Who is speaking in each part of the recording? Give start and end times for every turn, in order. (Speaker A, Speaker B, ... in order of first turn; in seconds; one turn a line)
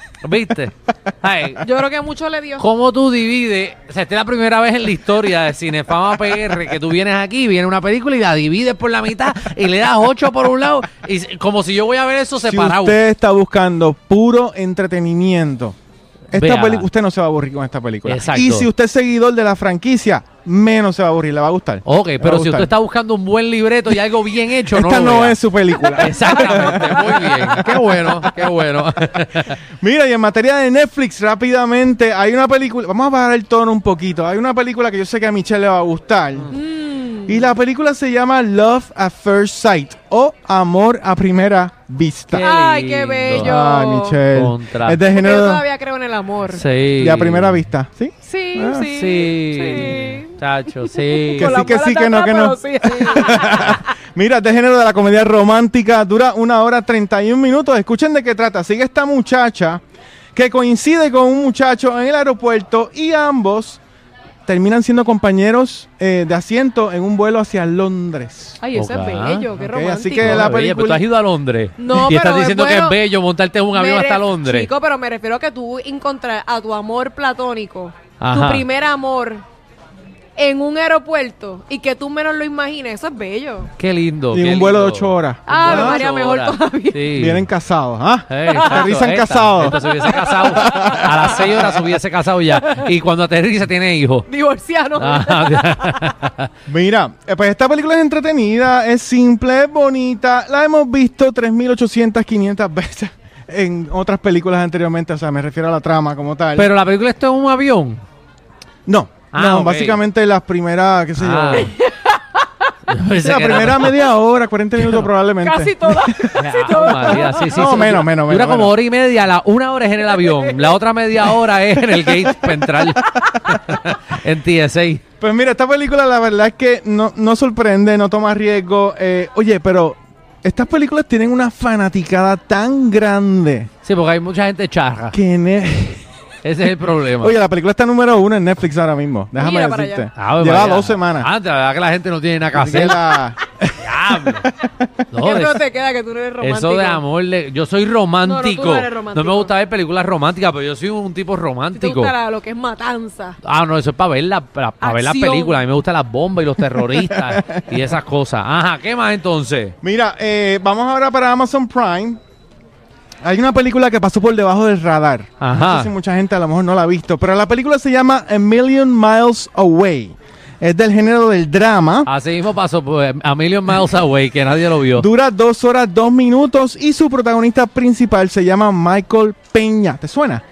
Speaker A: 0.2-1.6
Speaker B: 1.6-2.6
Speaker A: 2.6-13.0
Speaker C: 12.4-15.8
Speaker A: 16.3-16.9
Speaker C: 16.3-22.7
Speaker A: 18.0-18.7
Speaker A: 21.8-25.4
Speaker C: 24.7-28.4
Speaker A: 25.9-29.6
Speaker B: 26.5-27.2
Speaker C: 29.8-36.5
Speaker B: 36.5-37.4
Speaker C: 37.2-42.5
Speaker B: 42.3-44.2
Speaker A: 42.3-43.5
Speaker C: 43.3-45.6
Speaker A: 44.3-45.0
Speaker B: 45.0-46.6
Speaker A: 46.5-47.6
Speaker C: 47.0-48.9
Speaker B: 48.2-53.9
Speaker A: 48.9-51.6
Speaker C: 51.3-59.8
Speaker C: 60.3-63.8
Speaker C: 64.5-68.6
Speaker B: 68.6-70.5
Speaker A: 68.7-69.5
Speaker C: 69.5-71.0
Speaker A: 70.2-74.7
Speaker B: 71.8-73.0
Speaker B: 73.7-79.4
Speaker A: 78.2-78.6
Speaker B: 80.4-83.7
Speaker A: 83.8-87.5
Speaker C: 84.3-86.0
Speaker B: 85.5-87.1
Speaker C: 87.1-91.8
Speaker A: 88.3-94.2
Speaker B: 88.5-89.0
Speaker B: 89.7-91.8
Speaker B: 92.5-92.8
Speaker B: 94.3-96.1
Speaker A: 95.0-96.5
Speaker C: 96.7-106.7
Speaker A: 106.5-108.0
Speaker C: 108.8-111.7
Speaker A: 109.3-110.0
Speaker A: 111.2-111.7
Speaker B: 111.6-112.5
Speaker A: 112.9-114.0
Speaker C: 113.2-118.7
Speaker A: 114.8-115.0
Speaker B: 115.4-117.9
Speaker A: 116.3-125.0
Speaker B: 120.0-120.7
Speaker C: 121.9-123.0
Speaker C: 125.2-133.7
Speaker A: 133.8-135.2
Speaker C: 135.1-136.0
Speaker A: 136.4-137.4
Speaker C: 137.2-141.3
Speaker B: 139.3-140.1
Speaker A: 140.1-143.0
Speaker C: 142.5-144.9
Speaker A: 143.8-144.5
Speaker A: 145.1-145.6
Speaker B: 145.2-147.0
Speaker A: 146.4-152.1
Speaker B: 148.2-149.5
Speaker B: 151.8-153.3
Speaker A: 153.4-159.7
Speaker B: 154.8-155.6
Speaker C: 157.0-157.6
Speaker C: 159.8-162.2
Speaker C: 163.2-172.1
Speaker A: 165.4-165.9
Speaker A: 172.1-175.1
Speaker C: 174.9-180.4